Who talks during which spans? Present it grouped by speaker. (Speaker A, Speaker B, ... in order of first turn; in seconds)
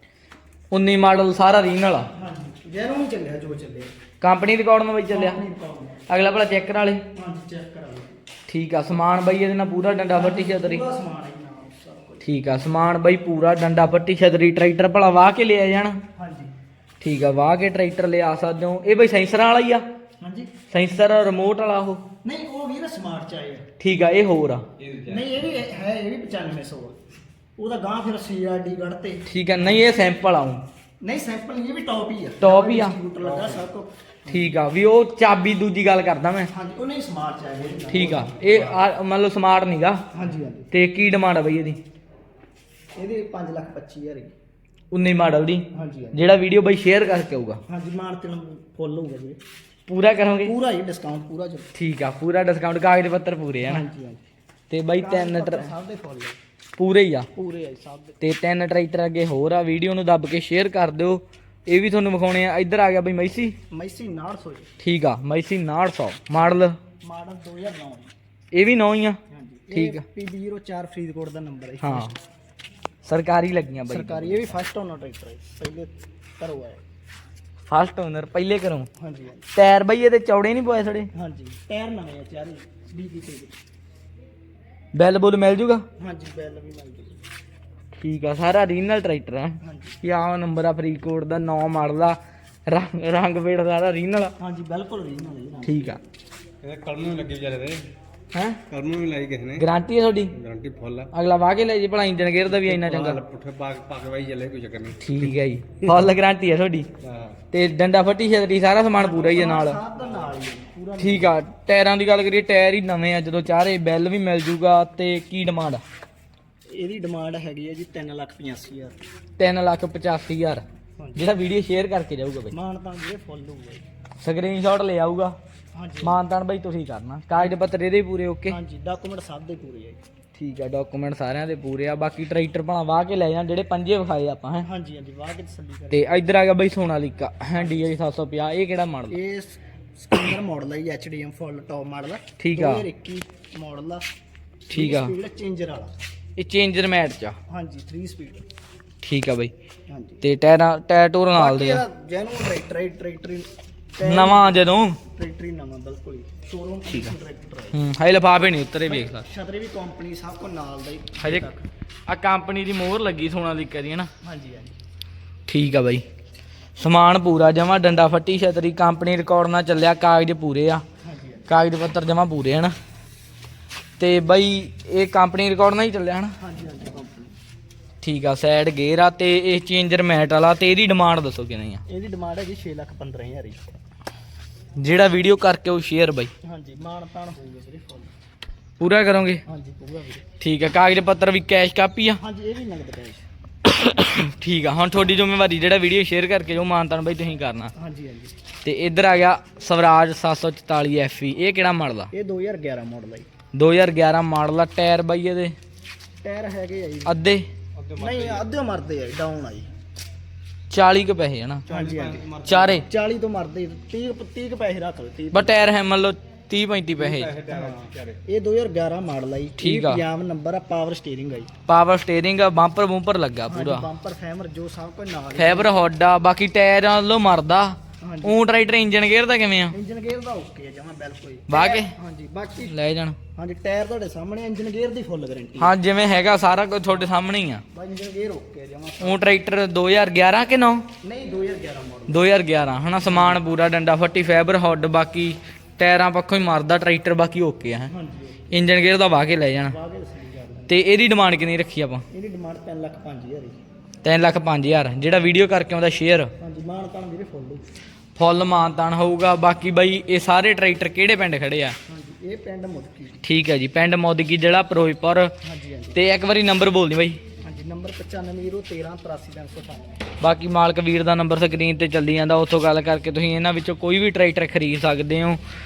Speaker A: 0.7-2.1, 4.2-5.4, 6.1-7.0, 8.5-10.8, 12.2-16.0, 17.0-19.8, 20.7-22.0, 23.8-24.6, 29.2-30.6, 32.4-33.0, 34.3-36.5, 37.9-40.0, 40.7-41.8, 44.9-47.6, 49.9-50.5, 51.7-53.8, 54.7-55.7, 56.8-57.3, 58.2-63.5, 64.8-66.8, 68.5-69.2, 69.7-70.0, 71.8-72.1, 73.0-74.4, 77.7-78.9, 79.5-81.1, 84.9-85.8, 88.0-92.2, 92.7-94.3, 95.7-96.0, 98.3-98.6, 99.6-100.3, 101.1-103.2, 105.0-106.9, 107.5-109.8, 111.0-115.8, 119.4-120.6, 121.2-122.5, 124.2-125.3, 126.0-128.6, 130.3-134.7, 135.9-139.2, 142.4-142.8, 144.7-145.1, 146.4-147.4, 149.0-149.5, 150.2-151.8, 154.0-155.0, 156.9-157.1, 157.7-159.2, 161.2-161.5, 162.1-164.1, 165.5-166.0, 166.8-170.8, 171.5-172.7, 174.0-176.3, 178.0-181.8, 184.8-186.3, 188.8-189.4, 190.4-192.2, 193.6-197.7, 198.6-202.1, 203.5-205.5, 207.1-207.5, 210.7-211.6, 212.4-212.8, 215.3-217.3, 219.6-220.0, 221.7-223.8, 225.3-229.7, 231.5-231.9, 232.7-233.2, 235.6-237.6, 239.0-240.9, 242.1-247.9, 248.5-249.8, 250.7-252.0, 254.0-256.3, 258.1-261.8, 263.2-265.3, 265.9-267.2, 270.2-275.4
Speaker B: 2.1-3.9, 5.1-6.1, 7.1-8.2, 10.1-12.2, 16.1-16.5, 20.2-20.5, 22.2-23.7, 25.0-27.0, 27.6-29.2, 31.0-34.6, 36.5-38.9, 40.1-40.7, 43.0-44.3, 45.7-46.2, 47.7-49.4, 50.4-51.7, 53.6-54.2, 55.0-56.4, 57.3-58.2, 63.7-64.7, 67.0-68.1, 69.3-72.1, 73.8-76.8, 79.0-79.5, 81.1-83.6, 86.0-87.2, 89.6-90.0, 94.4-96.0, 109.0-111.4, 116.7-119.0, 121.0-121.3, 122.5-123.8, 125.7-126.2, 128.5-130.0, 134.6-136.1, 137.5-138.0, 139.1-144.1, 144.7-145.9, 147.5-148.4, 149.9-150.2, 151.3-157.8, 158.8-161.7, 164.2-164.7, 171.0-171.5, 176.4-177.3, 181.9-183.6, 186.4-188.1, 189.4-190.2, 192.2-193.2, 197.7-198.3, 202.1-203.3, 206.2-207.2, 208.0-209.7, 211.7-215.7, 217.5-221.5, 223.5-225.8, 228.0-228.4, 229.7-232.7, 233.3-235.7, 237.7-239.2, 241.0-242.3, 243.0-243.4, 247.9-248.6, 249.6-250.8, 252.1-253.6, 256.4-257.6, 261.9-263.2, 265.4-266.0, 267.4-270.1
Speaker C: 24.8-25.2, 96.6-97.8, 98.7-99.6, 100.3-101.1, 102.5-105.1, 107.0-107.4, 207.8-208.4, 211.7-212.8, 217.0-218.2